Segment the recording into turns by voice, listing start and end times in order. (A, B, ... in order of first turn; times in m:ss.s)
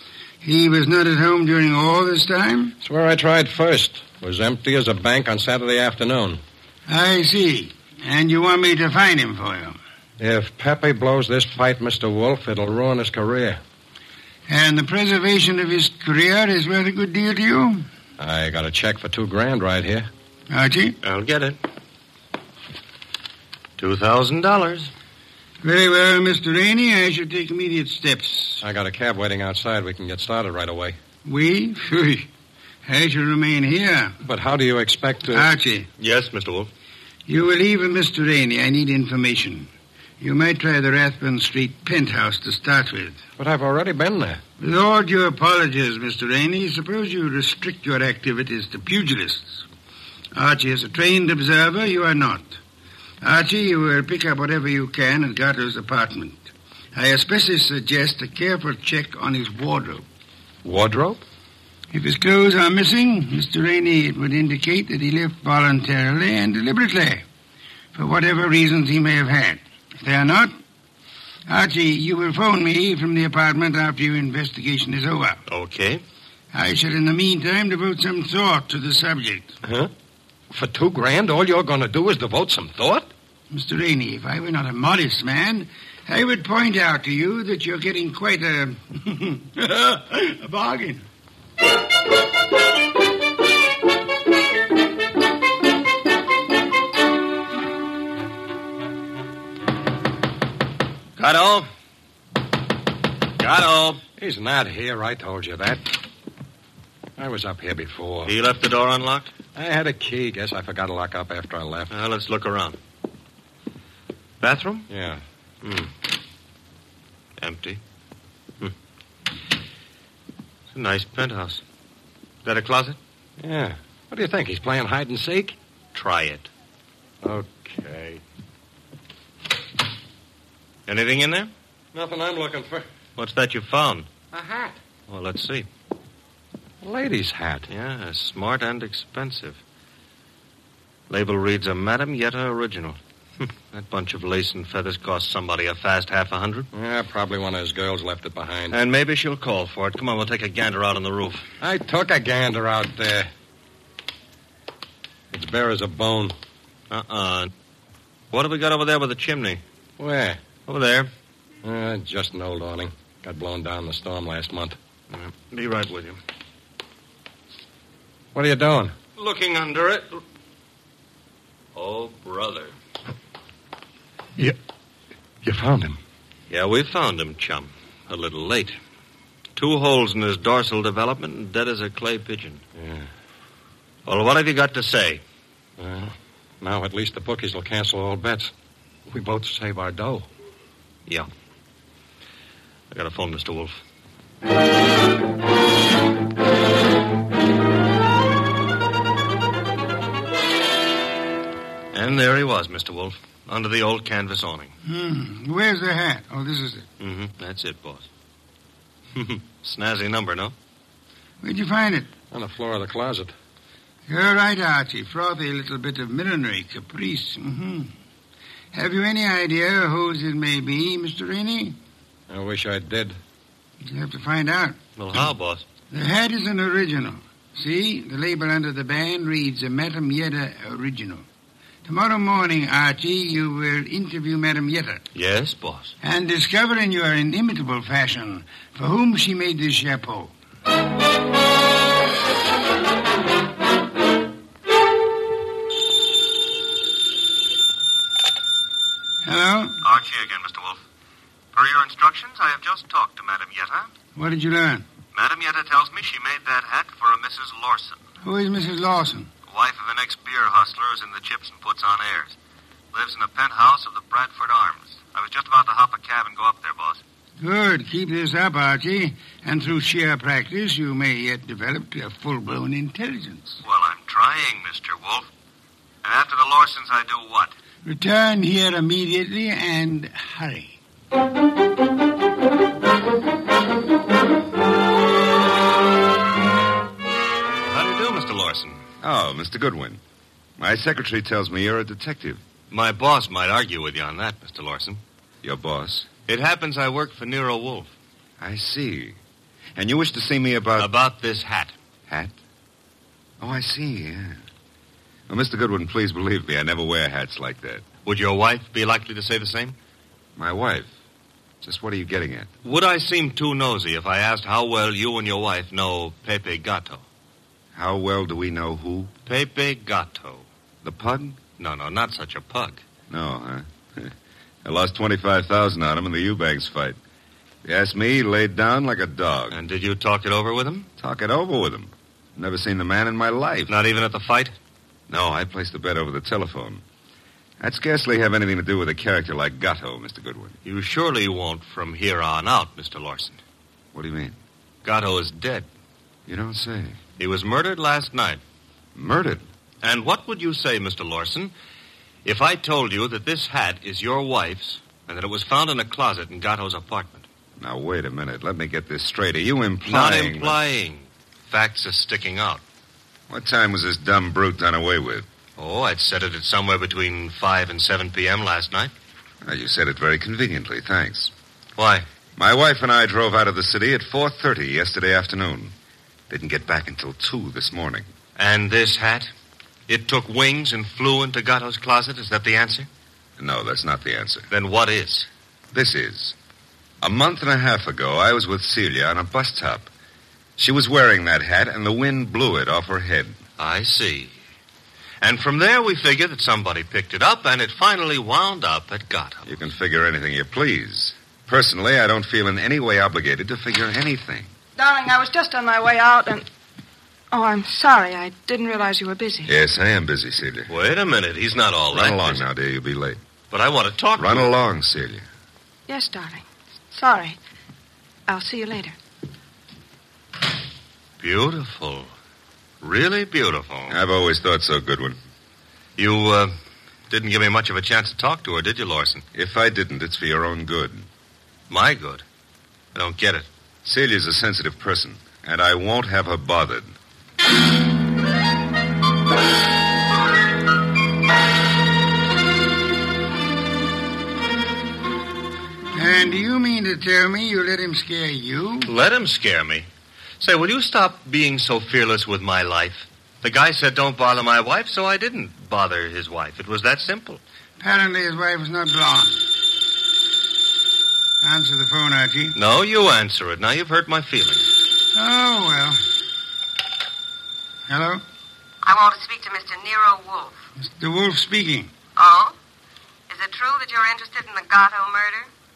0:00.4-0:02.8 A
0:02.8-0:06.4 B
0:06.9-0:09.8 A
0:10.2-0:13.6 B
0:14.5-0:17.9 A
0:18.2-0:20.1 B
0:20.5-0:21.0 A
0:21.0-0:21.6 C
0:23.8-0:24.9 C
0:25.6-0:28.6 A
0:28.6-0:31.0 B
0:31.2-0:32.3 A
0:32.9-0:34.2 A
0:34.2-0:35.5 B
0:35.3-0:35.9 A
0:36.0-0:36.7 C
0:37.3-0:39.7 A
0:40.2-0:43.2 A
0:43.4-0:44.4 B
0:44.6-0:49.6 A
0:50.4-0:52.6 A
0:53.2-1:00.0 A
1:00.6-1:01.2 B
1:01.9-1:07.2 A
1:08.0-1:10.5 A
1:11.5-1:15.4 A
1:15.5-1:16.0 C
1:16.5-1:19.5 A
1:20.5-1:23.1 B
1:23.5-1:31.0 A
1:41.2-1:41.7 C
1:43.4-1:44.0 C
1:44.2-1:45.8 B
1:47.2-1:48.3 B
1:48.3-1:49.3 C
1:49.6-1:51.9 B
1:51.9-1:52.8 C
1:54.4-1:54.9 C
1:54.9-1:55.2 B
1:55.6-1:55.9 C
1:57.4-1:57.8 C
2:00.7-2:01.6 C
2:02.4-2:03.0 C
2:03.4-2:05.6 B
2:05.9-2:06.5 C
2:07.2-2:08.2 B
2:10.9-2:11.5 C
2:11.9-2:12.9 B
2:13.2-2:14.1 C
2:14.3-2:14.8 B
2:15.1-2:15.7 C
2:16.8-2:17.7 B
2:17.7-2:19.6 C
2:21.1-2:26.7 C
2:26.7-2:28.8 B
2:28.7-2:31.5 C
2:31.6-2:33.3 B
2:35.3-2:36.4 B
2:36.9-2:37.5 C
2:38.3-2:39.6 C
2:40.0-2:40.4 B
2:40.7-2:41.1 C
2:41.6-2:44.8 B
2:45.1-2:46.2 C
2:48.3-2:49.0 B
2:49.2-2:50.2 C
2:51.8-2:52.7 C
2:55.4-2:56.0 B
2:56.5-2:58.8 C
2:59.6-3:02.6 C
3:02.8-3:03.1 B
3:04.1-3:05.2 C
3:05.8-3:08.5 B
3:09.1-3:10.3 B
3:12.9-3:13.8 C
3:21.9-3:24.7 C
3:24.8-3:26.9 A
3:27.0-3:28.1 C
3:29.2-3:30.5 C
3:31.4-3:32.1 A
3:32.3-3:33.3 B
3:34.1-3:37.9 A
3:38.7-3:41.8 A
3:42.3-3:43.2 B
3:43.8-3:44.8 A
3:45.0-3:45.6 C
3:45.9-3:51.2 A
3:51.9-3:55.0 A
3:55.2-3:55.9 C
3:56.0-4:00.3 A
4:09.2-4:09.8 A
4:09.8-4:10.8 C
4:11.5-4:13.9 C
4:14.2-4:14.8 A
4:15.1-4:18.0 C
4:18.2-4:19.3 A
4:19.5-4:22.4 C
4:22.9-4:27.0 C
4:27.4-4:33.6 A
4:33.6-4:35.3 C
4:36.0-4:37.5 C
4:37.8-4:40.8 A
4:47.6-4:48.8 C
4:49.0-4:50.0 D
4:50.6-4:52.4 D
4:52.7-4:55.0 C
4:55.4-4:56.1 D
4:56.3-4:57.9 C
4:58.4-4:59.2 D
4:59.8-5:00.9 D
5:00.8-5:01.8 C
5:02.1-5:02.4 D
5:03.4-5:04.4 D
5:05.3-5:07.8 D
5:08.0-5:09.8 C
5:10.4-5:10.9 D
5:11.6-5:12.5 D
5:12.6-5:17.0 C
5:17.8-5:19.1 D
5:19.3-5:20.5 C
5:20.8-5:21.4 D
5:21.6-5:22.8 C
5:23.1-5:24.1 D
5:24.6-5:27.0 D
5:27.6-5:29.6 D
5:29.5-5:30.9 C
5:31.0-5:33.7 D
5:33.7-5:34.6 C
5:35.1-5:36.8 D
5:37.6-5:40.6 D
5:40.6-5:43.4 C
5:43.9-5:44.4 D
5:44.8-5:45.7 C
5:46.3-5:47.0 D
5:47.2-5:48.4 C
5:49.0-5:49.5 D
5:49.8-5:51.5 C
5:52.2-5:57.3 C
5:57.6-6:00.6 D
5:59.9-6:02.6 C
6:03.3-6:05.3 D
6:05.6-6:08.9 C
6:09.4-6:11.3 D
6:11.8-6:12.0 C
6:12.4-6:15.7 D
6:16.3-6:18.1 D
6:18.4-6:19.3 C
6:19.9-6:22.9 C
6:23.4-6:24.5 D
6:24.5-6:25.3 C
6:25.7-6:26.4 D
6:27.0-6:29.9 D
6:30.6-6:33.4 D
6:33.6-6:34.3 C
6:35.2-6:39.5 C
6:39.5-6:44.5 D
6:44.8-6:46.5 E
6:47.3-6:49.5 E
6:49.4-6:50.7 D
6:50.7-6:52.4 C
6:51.9-6:53.2 D
6:53.5-6:54.5 C
6:54.2-6:55.3 D
6:55.9-6:57.4 E
6:58.3-6:59.0 E
7:01.2-7:02.1 C
7:02.8-7:04.0 C
7:03.9-7:05.2 D
7:06.0-7:06.5 C
7:07.1-7:09.2 C
7:09.4-7:11.1 D
7:11.7-7:12.2 C
7:13.0-7:13.5 C
7:13.8-7:17.0 D
7:25.9-7:28.9 A
7:28.9-7:29.9 C
7:30.4-7:37.4 C
7:37.8-7:39.4 A
7:41.4-7:42.6 A
7:42.6-7:44.7 C
7:45.1-7:46.0 A
7:47.9-7:48.2 A
7:48.8-7:50.6 F
7:50.8-7:51.9 A
7:52.2-7:52.6 F
7:53.3-7:55.5 F